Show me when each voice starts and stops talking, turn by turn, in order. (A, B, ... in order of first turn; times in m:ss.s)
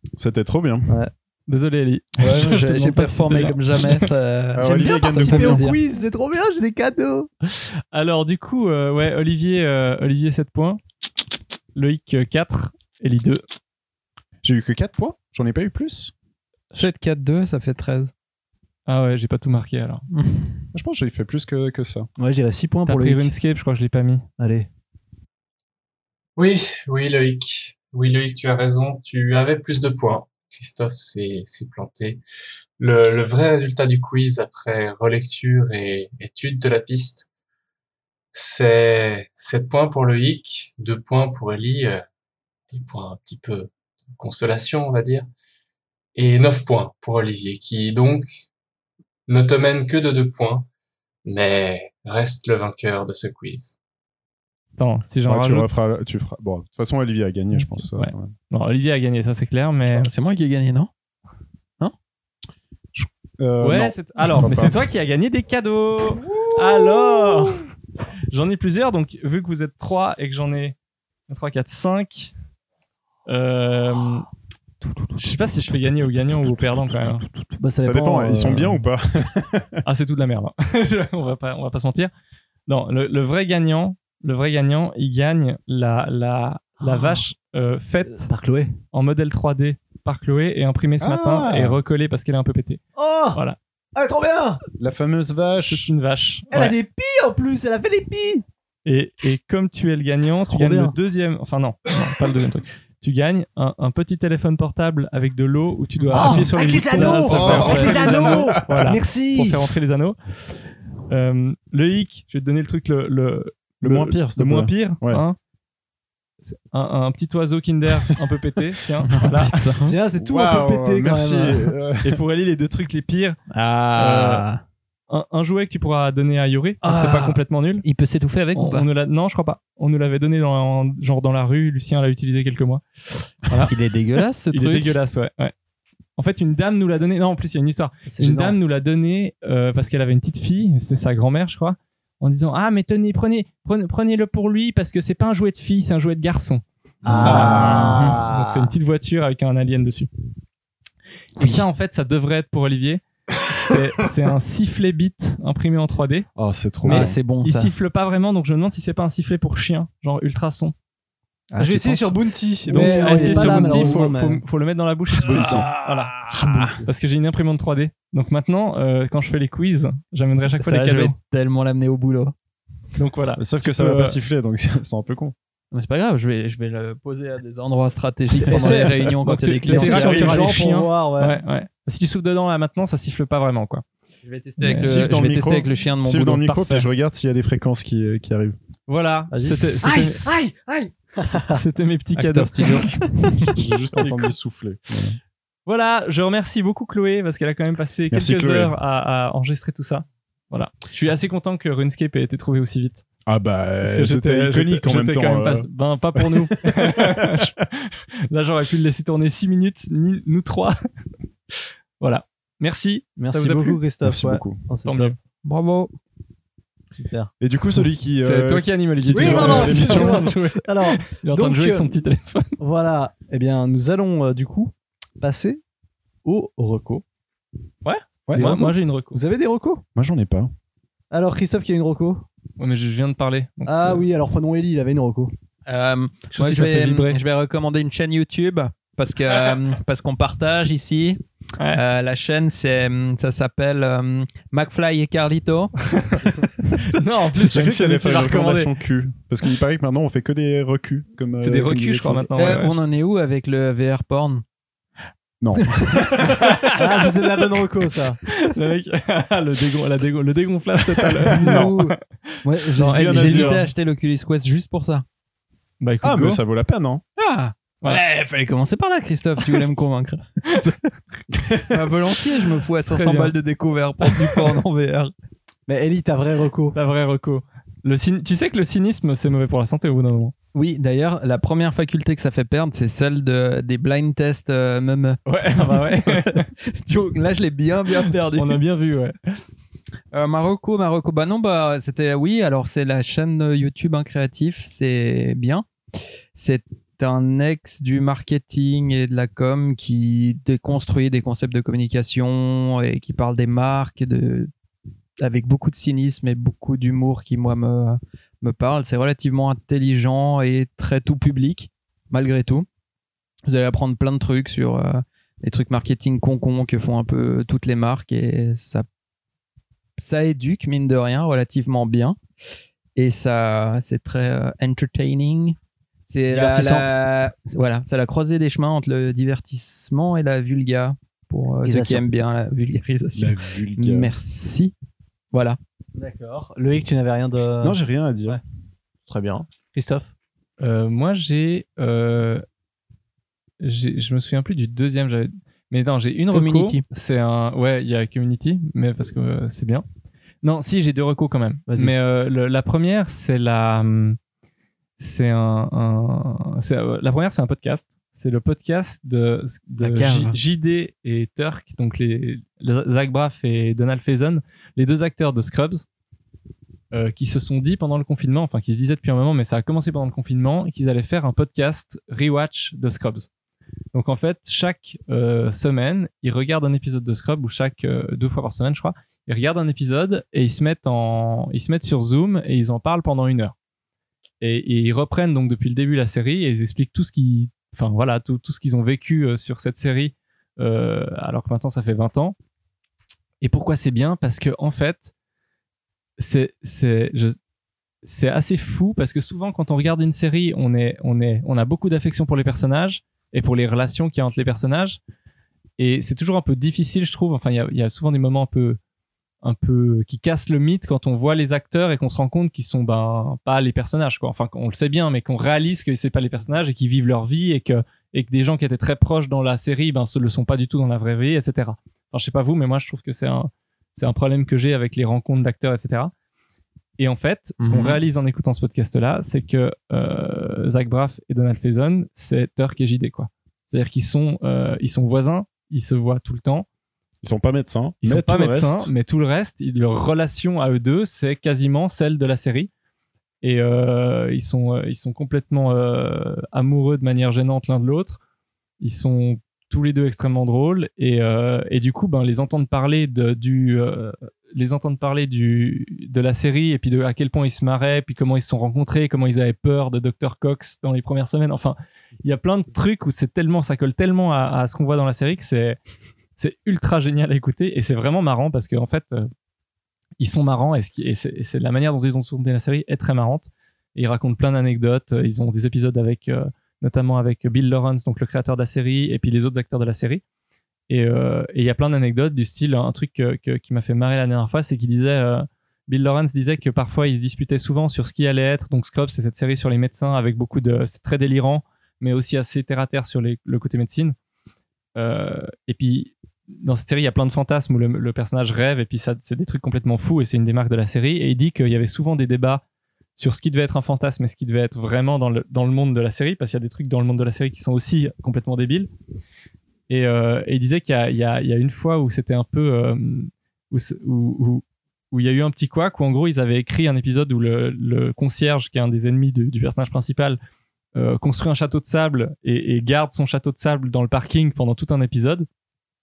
0:00.2-0:00.9 A
0:00.9-0:01.1 B
0:01.5-0:04.1 C
0:02.2-0:05.8 D
0:04.5-0:05.7 A
0:04.6-0:07.3 B
0:07.9-0:10.8 C
0:11.7-0:13.4 C
0:14.4-0:16.1 A
0:16.7-0:18.1 D
0:18.9-0:20.0 C
0:20.1-0:20.6 D
0:20.7-0:22.1 A
0:22.2-0:23.3 B
0:22.8-0:24.2 C
0:24.4-0:24.7 B
0:26.4-0:32.2 E
0:32.8-0:37.3 E
0:38.3-0:42.0 E
0:42.7-0:45.3 E
0:46.1-0:48.4 E
0:49.3-0:50.7 E
0:51.2-0:53.8 E
0:54.8-0:55.8 C
0:55.3-0:58.3 A
0:57.5-1:00.1 C
0:59.9-1:00.9 D
1:02.9-1:04.8 A
1:03.6-1:07.6 C
1:08.3-1:10.8 C
1:11.3-1:12.3 C
1:13.3-1:14.3 C
1:15.2-1:17.2 C
1:17.6-1:18.8 B
1:17.8-1:19.8 A
1:19.8-1:22.1 C
1:22.7-1:28.3 C
1:26.8-1:27.2 B
1:28.2-1:28.8 B
1:28.9-1:32.8 C
1:31.0-1:31.8 A
1:33.0-1:33.4 B
1:33.9-1:34.6 B
1:34.8-1:35.9 A
1:35.6-1:36.8 C
1:36.5-1:38.4 B
1:38.8-1:50.2 C
1:40.5-1:40.9 B
1:46.1-1:49.8 B
1:47.0-1:48.8 A
1:51.1-1:55.4 C
1:53.8-1:55.2 A
1:56.4-1:59.7 C
1:59.0-1:59.9 D
1:59.8-2:01.7 B
2:00.2-2:02.2 A
2:02.0-2:03.4 C
2:03.5-2:04.6 D
2:04.0-2:04.4 C
2:05.1-2:07.8 C
2:06.8-2:08.9 D
2:08.5-2:13.7 C
2:13.6-2:15.0 D
2:14.5-2:15.5 C
2:16.2-2:26.6 C
2:18.1-2:18.5 B
2:27.0-2:28.7 B
2:27.1-2:27.9 A
2:27.1-2:28.1 D
2:27.2-2:30.1 C
2:31.4-2:36.3 C
2:36.4-2:37.2 A
2:36.8-2:40.7 C
2:36.8-2:37.7 D
2:41.5-2:42.1 D
2:41.6-2:44.4 B
2:42.7-2:46.3 C
2:42.7-2:44.0 D
2:45.2-2:45.7 A
2:45.2-2:46.8 D
2:46.5-2:46.8 B
2:46.8-2:51.1 C
2:50.3-2:52.3 D
2:53.0-2:54.2 C
2:53.4-2:55.3 A
2:55.7-3:00.6 D
2:58.4-2:59.1 B
2:58.5-3:03.8 C
2:59.7-3:01.4 B
3:04.2-3:06.6 D
3:04.6-3:05.1 C
3:04.8-3:08.6 A
3:06.5-3:06.9 C
3:08.9-3:10.3 C
3:09.3-3:11.6 B
3:11.5-3:13.0 C
3:12.1-3:13.0 D
3:13.5-3:15.2 A
3:14.0-3:14.3 C
3:15.6-3:23.0 C
3:18.1-3:18.7 A
3:23.2-3:27.5 A
3:23.8-3:30.8 C
3:32.0-3:33.8 C
3:33.2-3:35.1 B
3:34.0-3:34.6 A
3:34.8-3:35.2 C
3:35.4-3:35.9 D
3:37.0-3:37.3 B
3:37.4-3:40.3 A
3:38.2-3:42.6 C
3:39.1-3:41.9 B
3:42.6-3:45.6 B
3:46.2-3:47.0 B
3:47.8-3:49.2 C
3:48.3-3:48.6 A
3:48.3-3:49.8 B
3:50.0-3:50.5 A
3:51.1-3:52.2 B
3:52.6-3:54.0 C
3:53.6-3:55.3 B
3:55.7-4:01.2 D
3:56.3-3:57.2 C
4:01.7-4:05.8 D
4:05.9-4:06.2 C
4:06.9-4:08.7 C
4:07.3-4:12.3 A
4:11.4-4:12.8 C
4:12.4-4:14.4 D
4:15.4-4:16.4 A
4:16.2-4:17.3 C
4:16.7-4:18.2 B
4:18.3-4:22.0 C
4:21.2-4:25.0 D
4:22.8-4:23.7 A
4:22.8-4:23.6 C
4:25.8-4:26.4 C
4:26.0-4:27.0 A
4:27.2-4:30.7 D
4:31.3-4:31.7 A
4:31.7-4:35.1 D
4:32.8-4:33.3 C
4:35.7-4:36.8 B
4:36.7-4:40.3 C
4:40.5-4:48.6 D
4:45.2-4:46.5 C
4:48.3-4:49.2 C
4:50.1-4:55.6 D
4:56.3-5:04.5 D
5:05.2-5:12.6 D
5:13.4-5:18.9 D
5:20.0-5:22.2 D
5:23.0-5:34.7 D
5:26.3-5:26.9 B
5:31.6-5:32.0 B
5:33.1-5:34.1 A
5:35.3-5:35.6 D
5:36.0-5:38.4 B
5:37.6-5:38.4 A
5:39.1-5:40.1 B
5:40.6-5:42.4 C
5:43.6-5:49.8 C
5:46.3-5:46.8 D
5:50.4-5:54.2 C
5:51.7-5:51.9 B
5:55.0-6:05.8 C
5:59.8-6:00.3 B
6:06.9-6:13.3 C
6:13.9-6:23.5 C
6:24.4-6:32.4 C
6:33.4-6:35.1 C
6:36.2-6:37.4 C
6:38.0-6:45.0 C
6:45.8-6:48.8 C
6:49.4-7:06.1 C
7:07.0-7:16.6 C
7:07.6-7:08.0 D
7:17.2-7:18.9 A
7:18.0-7:22.7 C
7:23.4-7:28.2 C
7:28.8-7:45.8 C
7:46.4-7:49.3 C
7:50.2-8:00.2 C
8:00.9-8:14.1 C
8:15.0-8:22.6 C
8:23.2-8:28.9 C
8:29.9-8:40.4 C
8:40.9-8:45.5 C